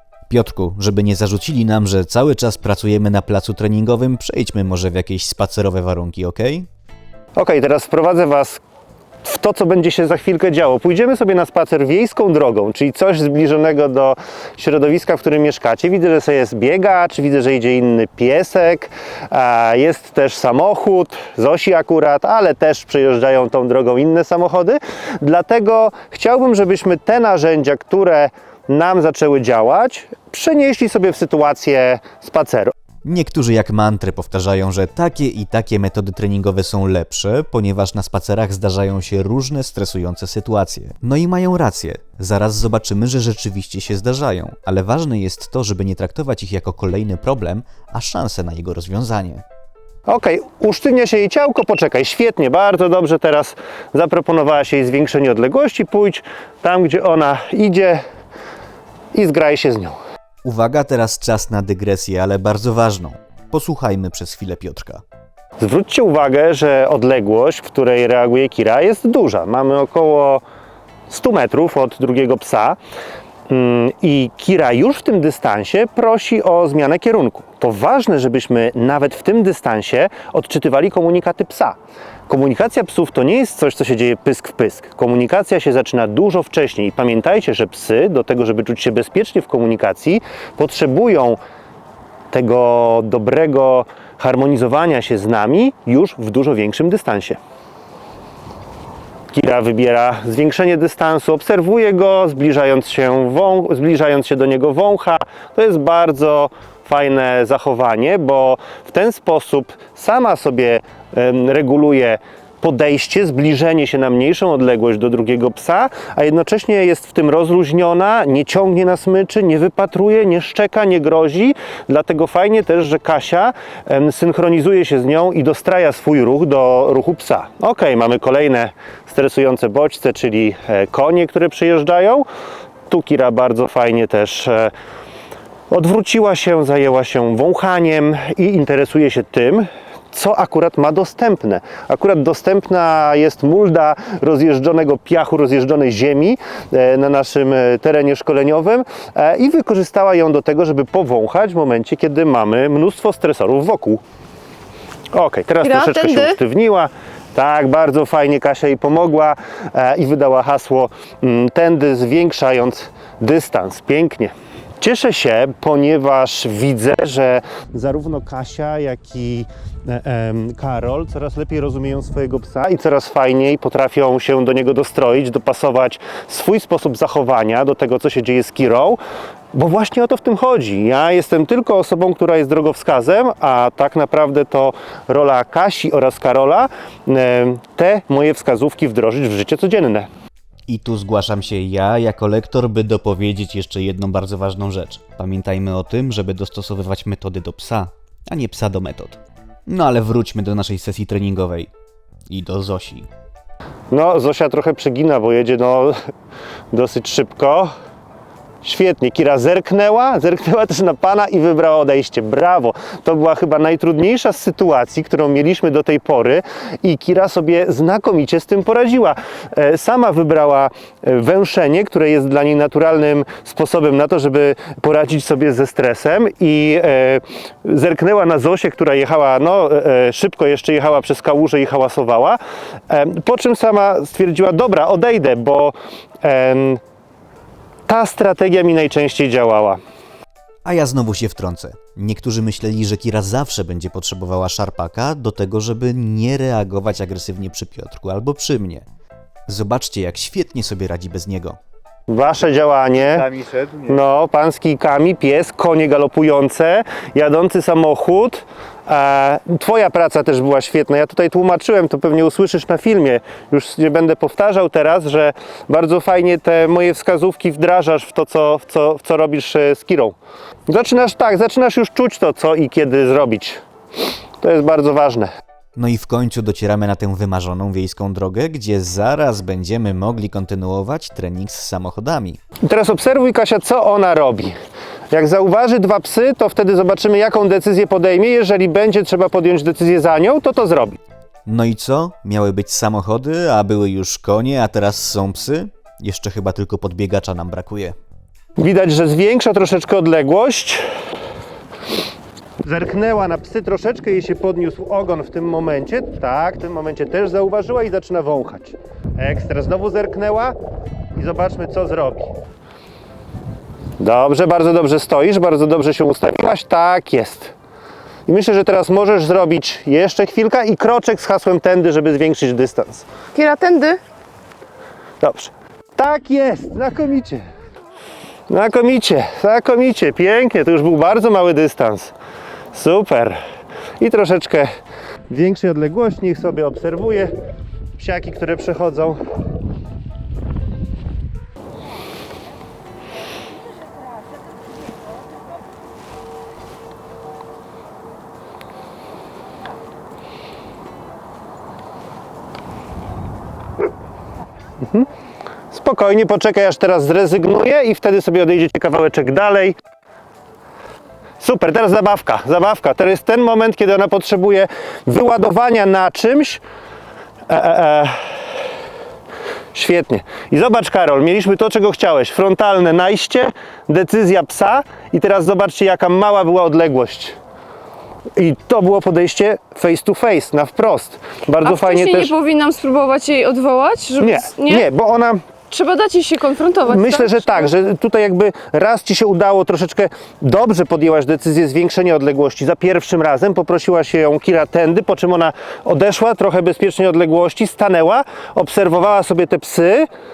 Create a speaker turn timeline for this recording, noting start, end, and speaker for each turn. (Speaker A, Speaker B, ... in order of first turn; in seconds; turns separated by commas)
Speaker A: 0.3-6.7, Speaker B: 7.3-8.6, Speaker B: 9.2-32.7, Speaker A: 33.0-49.4, Speaker B: 50.1-58.0, Speaker B: 59.1-60.0, Speaker A: 60.4-65.0, Speaker B: 65.6-70.4, Speaker B: 71.1-72.8, Speaker B: 73.5-81.8, Speaker B: 82.3-91.4, Speaker B: 92.3-97.4, Speaker B: 99.3-132.3, Speaker B: 132.9-134.7, Speaker B: 135.7-154.0, Speaker B: 155.1-179.0, Speaker C: 155.6-156.4, Speaker B: 179.5-190.1, Speaker A: 190.7-201.7, Speaker A: 202.3-203.1, Speaker B: 203.9-206.0, Speaker B: 206.7-207.7, Speaker B: 208.6-236.8, Speaker B: 237.9-239.8, Speaker A: 240.7-248.9, Speaker A: 249.5-251.6, Speaker B: 252.1-253.3, Speaker A: 253.0-254.0, Speaker B: 253.9-270.2, Speaker B: 270.7-273.6, Speaker B: 274.4-275.3, Speaker A: 275.8-282.4, Speaker B: 282.6-284.6, Speaker B: 285.1-291.0, Speaker A: 291.5-298.0, Speaker B: 298.6-300.9, Speaker B: 302.6-310.6, Speaker B: 311.1-312.4, Speaker B: 314.0-317.5, Speaker B: 318.3-323.1, Speaker C: 323.4-324.0, Speaker B: 325.2-327.5, Speaker B: 328.5-332.1, Speaker B: 332.7-333.4, Speaker B: 334.0-334.7, Speaker B: 335.3-337.3, Speaker B: 338.0-339.2, Speaker B: 354.8-355.1, Speaker B: 355.7-359.8, Speaker B: 361.4-366.6, Speaker B: 367.5-368.6, Speaker B: 369.7-377.4, Speaker B: 378.4-382.4, Speaker C: 381.6-384.9, Speaker B: 384.2-385.4, Speaker C: 385.7-387.7, Speaker B: 386.9-400.1